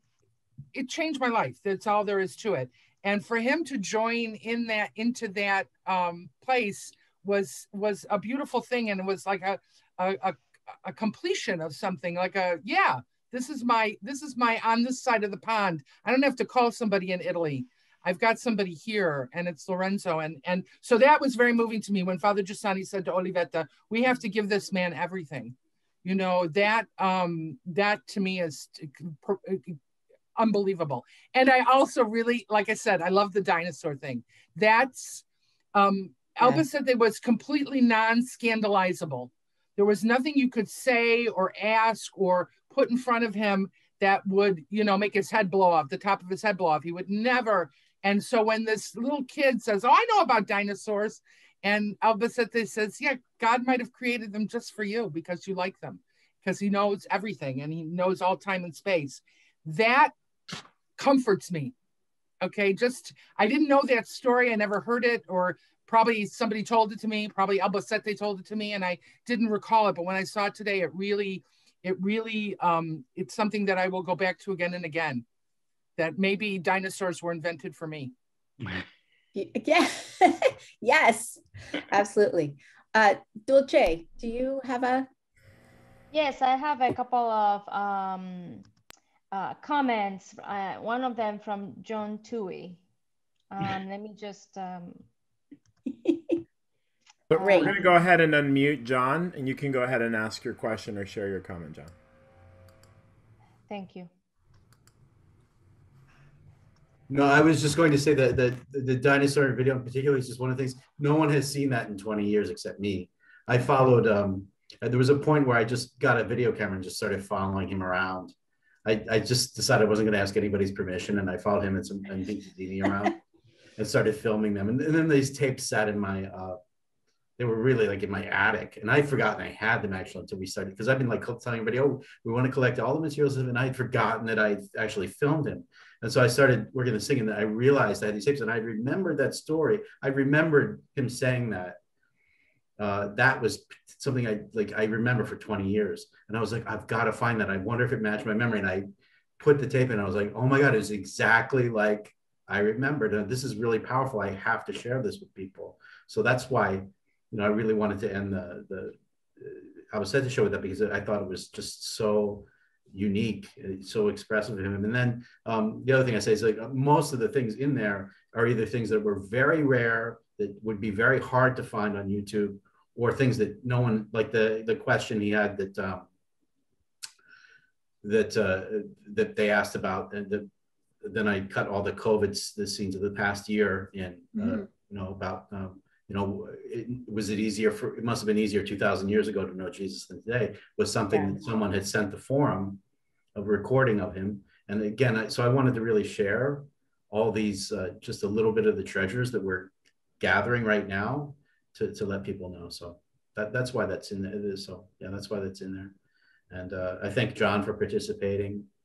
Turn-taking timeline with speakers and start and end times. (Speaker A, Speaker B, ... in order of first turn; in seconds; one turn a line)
Speaker A: 0.7-29.8
Speaker A: 30.4-35.2
Speaker A: 35.7-60.1
Speaker A: 61.0-61.7
Speaker A: 62.4-75.2
Speaker A: 76.0-78.1
Speaker B: 79.3-85.1
Speaker C: 86.1-88.6
Speaker C: 89.3-92.8
Speaker C: 93.5-95.0
Speaker D: 97.3-101.9
Speaker B: 97.3-97.8
Speaker C: 97.3-97.8
Speaker C: 103.7-104.1
Speaker E: 107.1-123.2
Speaker E: 123.8-126.6
Speaker E: 127.4-141.8
Speaker E: 142.8-148.9
Speaker E: 149.4-176.1
Speaker E: 178.0-180.5
Speaker E: 181.0-192.8
Speaker B: 184.3-184.6
Speaker E: 193.3-205.9
Speaker E: 206.5-208.7